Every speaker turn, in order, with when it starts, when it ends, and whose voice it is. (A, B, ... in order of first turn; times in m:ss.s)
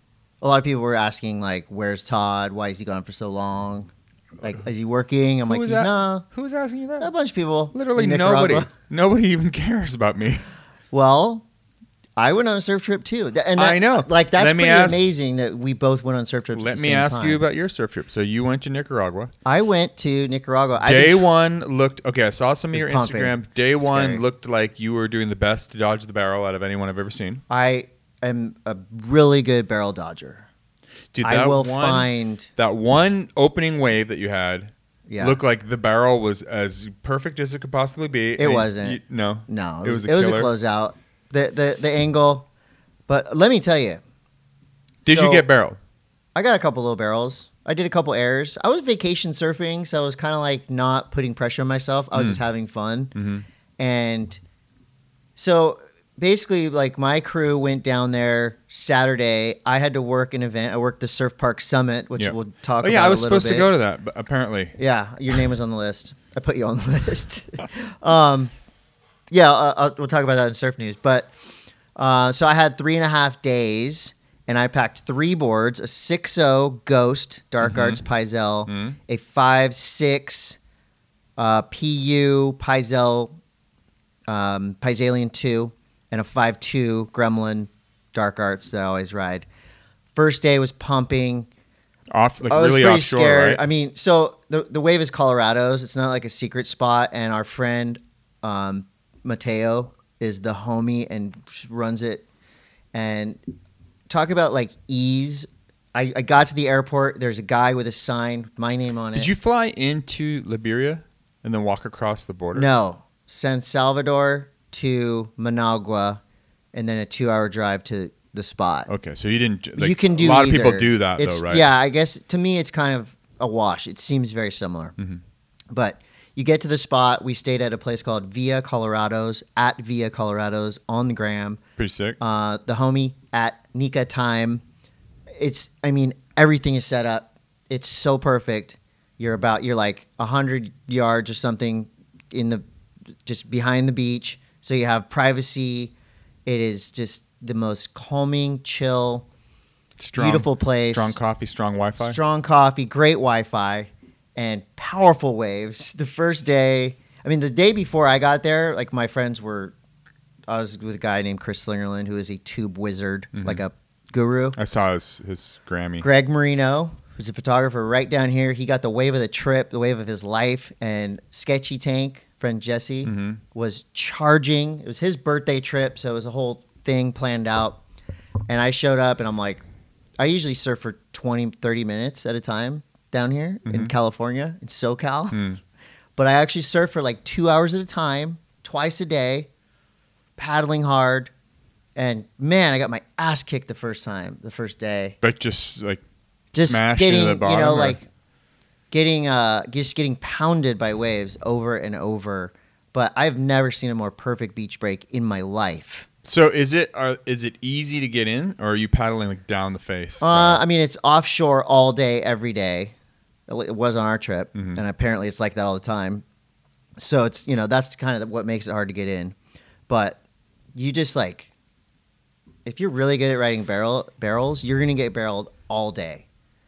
0:00.4-0:03.9 A
0:04.4-0:06.2 A
0:05.5-0:07.1 B
0:07.0-0:08.7 A
0:07.7-0:10.4 B
0:10.9-0:11.4 A
0:12.2-0:17.4 A
0:13.6-0:15.0 B
0:16.5-0:19.3 B
0:19.4-0:21.3 A
0:20.8-0:27.4 B
0:22.7-0:24.2 A
0:27.5-0:30.4 A
0:31.1-0:40.5 B
0:31.2-0:32.5 A
0:35.1-0:35.4 A
0:38.4-0:42.5 A
0:43.1-0:44.0 A
0:45.0-0:45.8 B
0:45.0-0:45.4 A
0:46.3-0:53.1 A
0:52.1-0:52.4 B
0:53.1-0:53.4 B
0:53.8-0:54.4 A
0:55.4-1:03.7 A
1:02.2-1:04.8 B
1:04.8-1:08.5 A
1:09.3-1:11.3 A
1:12.0-1:20.6 A
1:17.6-1:18.0 B
1:18.7-1:19.0 B
1:21.4-1:23.3 A
1:24.3-1:29.4 A
1:30.1-1:31.5 A
1:32.1-1:33.6 B
1:32.5-1:42.2 A
1:42.9-1:43.4 A
1:44.1-1:49.3 A
1:49.1-1:52.7 B
1:52.5-1:56.2 A
1:56.7-1:58.9 A
1:58.9-2:01.7 B
1:59.8-2:04.9 A
2:05.7-2:11.6 A
2:11.8-2:12.2 B
2:12.2-2:14.6 A
2:15.4-2:22.6 A
2:23.2-2:25.9 A
2:26.4-2:29.2 A
2:30.0-2:32.2 B
2:30.1-2:31.2 A
2:32.0-2:39.7 A
2:40.5-2:44.6 A
2:43.3-2:43.6 B
2:44.6-2:46.0 B
2:46.0-2:57.8 A
2:53.0-2:53.4 B
2:58.5-2:59.6 A
3:00.2-3:05.4 A
3:03.6-3:03.9 B
3:05.3-3:05.6 B
3:06.2-3:09.5 A
3:10.4-3:11.3 A
3:12.0-3:15.2 A
3:15.2-3:16.0 B
3:16.5-3:18.0 B
3:16.5-3:18.0 A
3:18.9-3:26.1 A
3:26.2-3:30.6 B
3:30.2-3:32.9 A
3:33.5-3:36.2 A
3:34.5-3:34.8 B
3:37.0-3:39.4 A
3:39.9-3:40.2 A
3:40.7-3:41.5 A
3:42.6-3:46.2 A